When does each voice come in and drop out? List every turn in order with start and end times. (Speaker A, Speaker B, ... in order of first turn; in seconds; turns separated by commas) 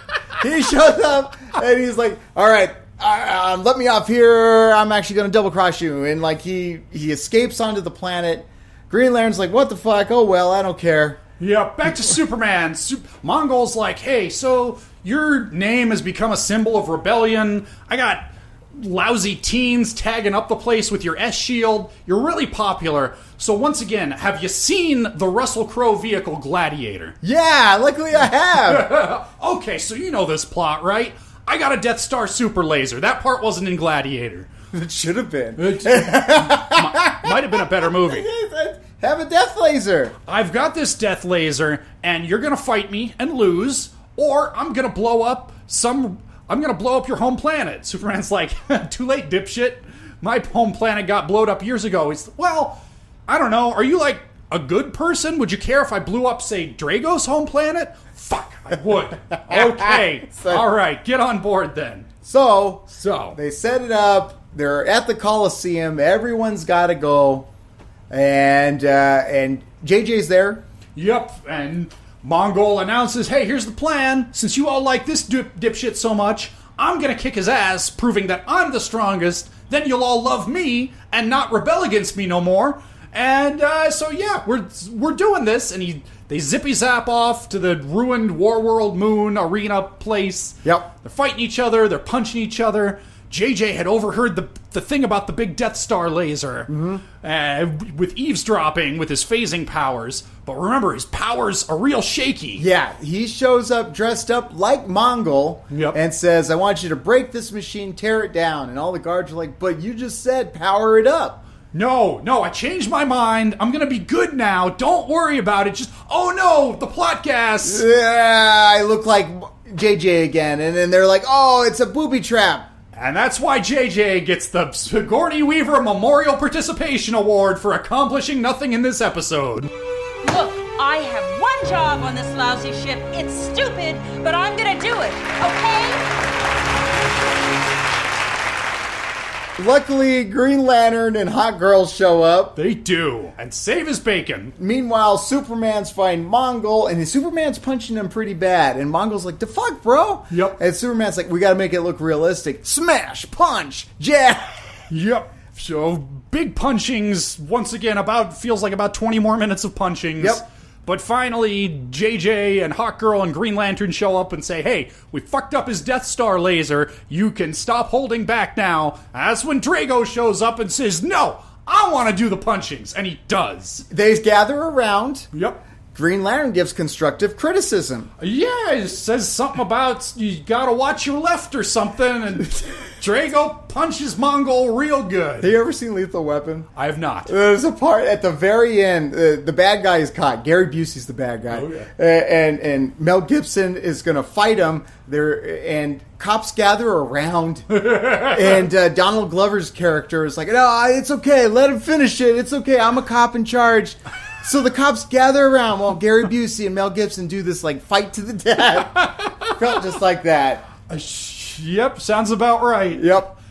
Speaker A: 0.4-11.2, Speaker B: 11.4-27.2, Speaker A: 27.2-28.9, Speaker B: 28.5-34.5, Speaker A: 34.7-40.1, Speaker B: 35.6-38.3, Speaker B: 40.3-62.1, Speaker A: 59.5-60.7, Speaker A: 62.2-67.5, Speaker B: 62.9-63.4, Speaker A: 68.1-70.6, Speaker B: 71.0-102.7, Speaker A: 96.7-97.0, Speaker A: 102.6-111.4, Speaker B: 105.7-106.0, Speaker B: 111.7-117.8, Speaker A: 117.6-122.7, Speaker B: 122.9-129.7, Speaker C: 130.2-136.0, Speaker A: 139.6-142.6, Speaker B: 142.6-144.6, Speaker A: 144.6-154.7, Speaker B: 150.3-150.6, Speaker B: 154.9-173.9, Speaker A: 160.2-160.4, Speaker A: 173.9-175.3, Speaker B: 175.3-175.6, Speaker A: 175.9-178.1, Speaker B: 178.2-185.5, Speaker A: 185.4-186.7, Speaker B: 186.8-187.3, Speaker A: 187.3-210.7, Speaker B: 191.5-191.9, Speaker B: 197.7-198.7, Speaker B: 209.0-209.5, Speaker B: 210.9-213.2, Speaker A: 212.9-213.3